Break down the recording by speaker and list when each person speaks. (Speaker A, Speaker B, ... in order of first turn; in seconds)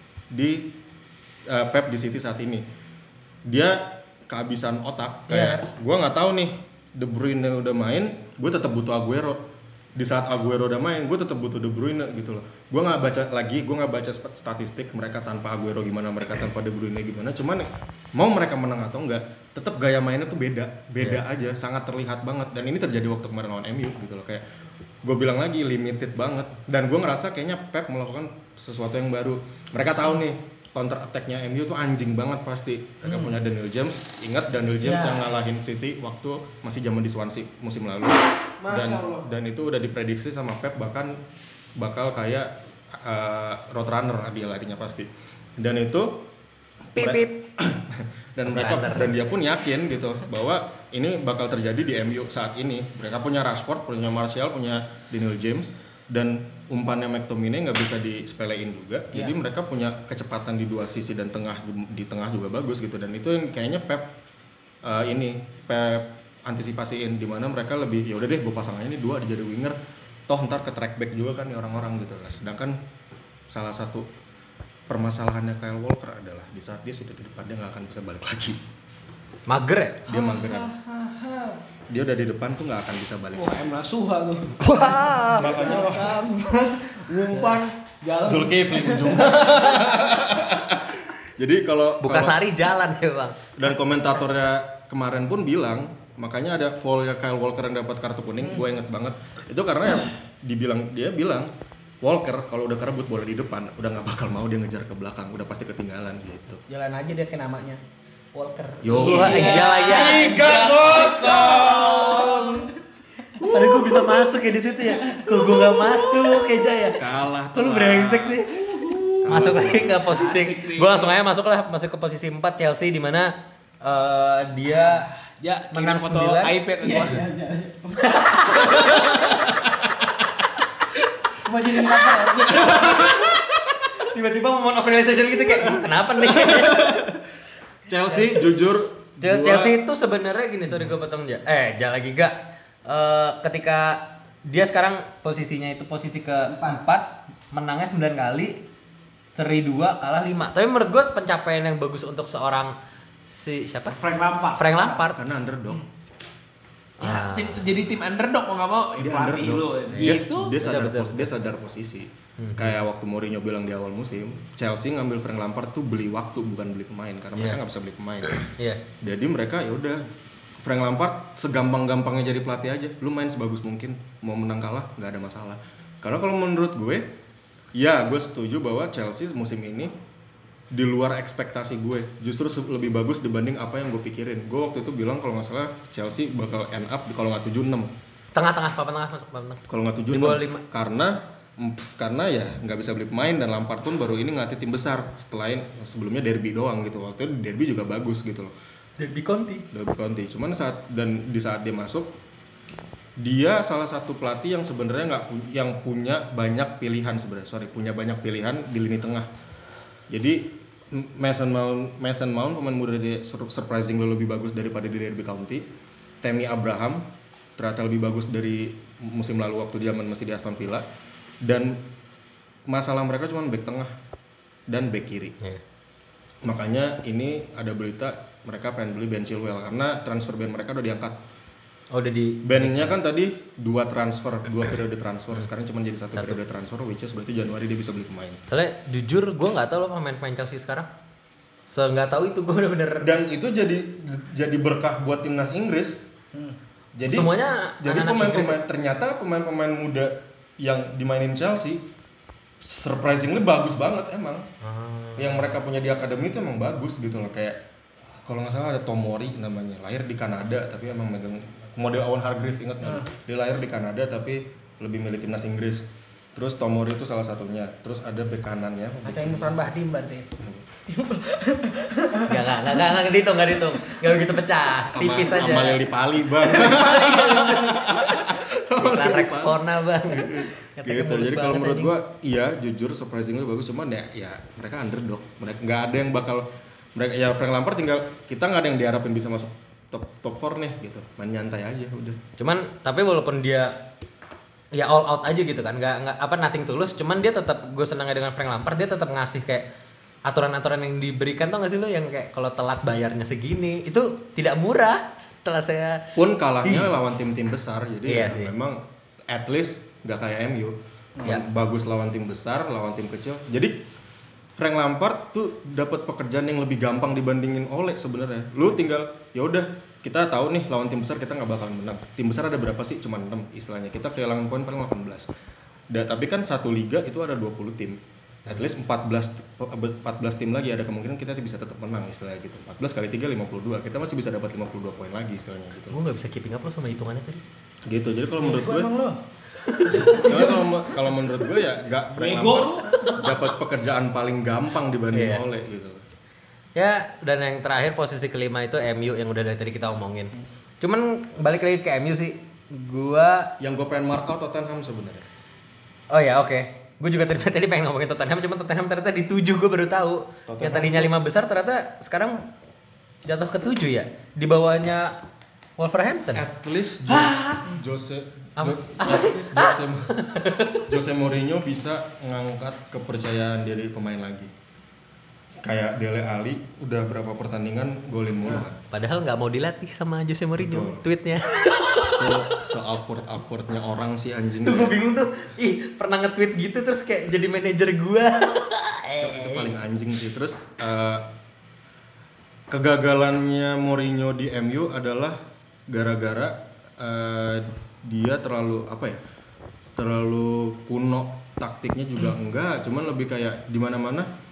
Speaker A: 0.3-0.7, 1.5-2.6, 3.5-9.4, 10.0-24.4, 25.0-41.2, 41.8-46.3, 47.0-64.1, 64.8-69.8, 70.3-72.8, 73.5-74.1, 74.9-78.6, 80.1-80.8, 81.9-83.6, 85.4-86.2, 88.2-92.4, 93.6-101.5, 102.0-106.6, 108.8-112.6, 116.9-120.0, 135.8-137.2, 137.9-139.8, 155.1-155.8, 159.0-168.4, 169.0-170.0, 170.6-177.1, 177.8-179.9, 180.7-187.9, 189.7-198.5, 199.7-202.1, 203.2-209.3, 210.1-215.7, 216.2-220.9, 221.4-221.8, 222.7-223.9, 224.7-225.4, 226.4-231.2, 232.4-238.4, 243.0-246.0, 247.0-251.9, 252.6-254.5, 255.2-257.6, 258.2-269.6, 270.4-270.6, 274.9-292.2, 306.2-313.8, 314.6-325.3, 325.9-336.0, 337.9-338.9, 340.0-346.0, 353.6-355.3, 360.5-361.1, 366.4-370.1, 370.9-374.5, 375.6-378.8, 380.6-381.0, 382.2-385.1, 389.2-391.3, 392.7-395.4, 395.9-399.2, 400.0-404.3
Speaker B: 5.3-5.6, 33.1-33.3, 34.8-35.2, 84.7-85.7, 106.7-107.8, 108.3-110.5, 111.9-112.4, 126.8-128.0, 131.4-133.2, 146.5-146.8, 269.1-270.3, 270.9-272.9, 338.4-339.2, 339.9-340.6
Speaker C: 38.6-39.3, 80.1-81.6, 83.3-89.8, 108.9-112.6, 113.4-114.1, 118.8-121.2, 124.9-127.3, 153.9-155.0, 157.0-160.6, 342.1-343.2
Speaker D: 47.0-47.3, 48.5-49.1, 79.5-80.2, 85.1-85.3, 92.0-93.4, 109.0-110.5, 113.4-118.6, 119.3-125.1, 125.7-126.5, 128.0-129.2, 132.6-133.3, 133.9-136.9, 139.2-148.6, 149.3-152.8, 153.3-154.0, 154.6-155.2, 157.0-157.6, 159.9-161.3, 162.4-162.7, 168.6-168.8, 188.3-190.6, 199.0-199.7, 231.9-233.0, 238.5-240.9, 241.7-243.1, 247.1-248.6, 254.6-255.6, 272.3-275.9, 276.4-281.9, 292.4-293.8, 294.7-299.7, 300.2-306.1, 306.6-306.9, 308.1-308.5, 335.9-337.4, 339.7-340.3, 345.1-345.4, 346.8-353.5, 356.1-362.5, 363.3-365.2, 365.8-366.4, 367.1-367.6, 368.6-370.9, 378.6-382.3, 384.6-389.7